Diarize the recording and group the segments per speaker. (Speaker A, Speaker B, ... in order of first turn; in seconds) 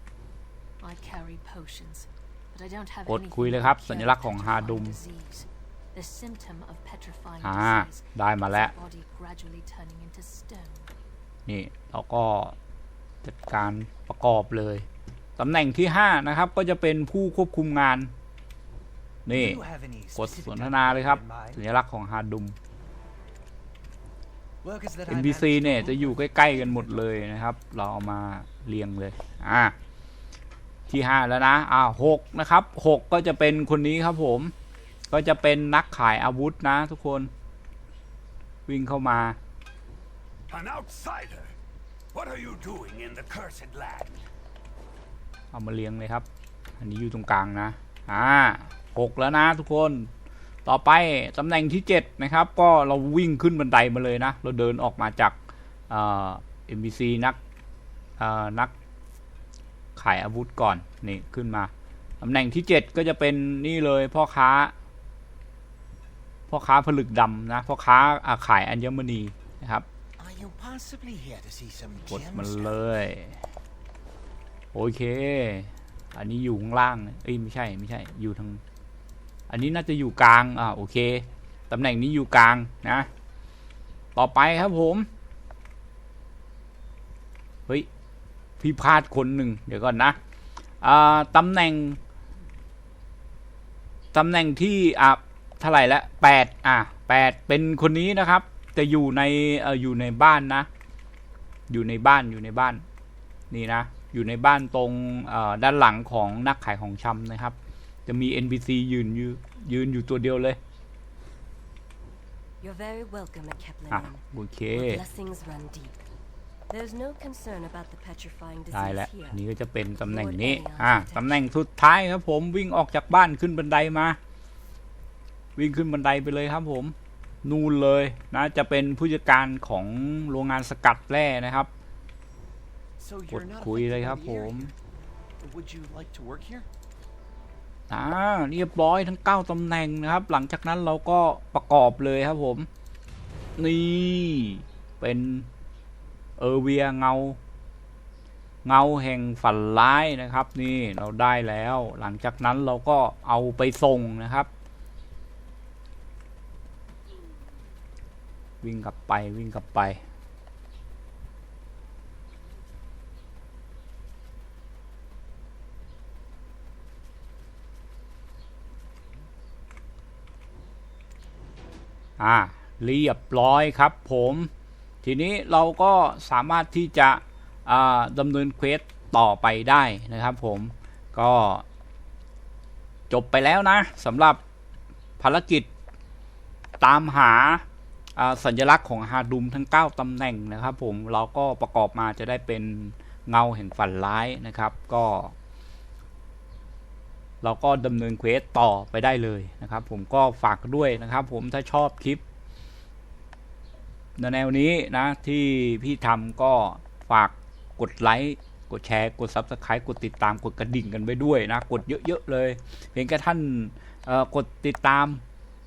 Speaker A: 0.8-10.9
Speaker B: 3.1-5.0, 7.4-8.7, 11.5-12.6, 13.2-14.9, 15.4-18.1, 19.3-19.6, 20.2-22.6, 25.1-29.8, 30.9-34.5, 35.1-37.3, 38.7-39.4, 45.5-46.3, 46.8-50.1, 50.7-55.4, 55.9-57.4, 58.2-58.7, 60.0-64.7, 66.5-69.9, 72.1-73.4, 74.7-78.6, 79.5-83.1, 84.2-85.1, 88.6-90.2, 90.8-92.0, 94.1-100.7, 101.7-102.8, 103.5-107.5, 108.1-110.6, 113.9-115.0, 118.7-124.2, 125.6-131.7, 133.3-134.7, 137.9-142.7, 143.6-145.5, 146.4-147.4, 148.7-154.5, 158.6-160.0, 172.2-174.5, 175.0-181.7, 183.1-184.4, 185.2-185.7, 186.8-187.7, 188.2-195.3, 197.4-202.2, 204.2-215.2
Speaker C: 19.3-21.6, 24.6-27.2, 70.2-72.8, 133.0-134.7, 135.4-136.7
Speaker D: 40.5-41.5, 42.1-44.2
Speaker E: 112.6-114.2, 114.7-116.0, 116.7-119.4, 119.9-121.5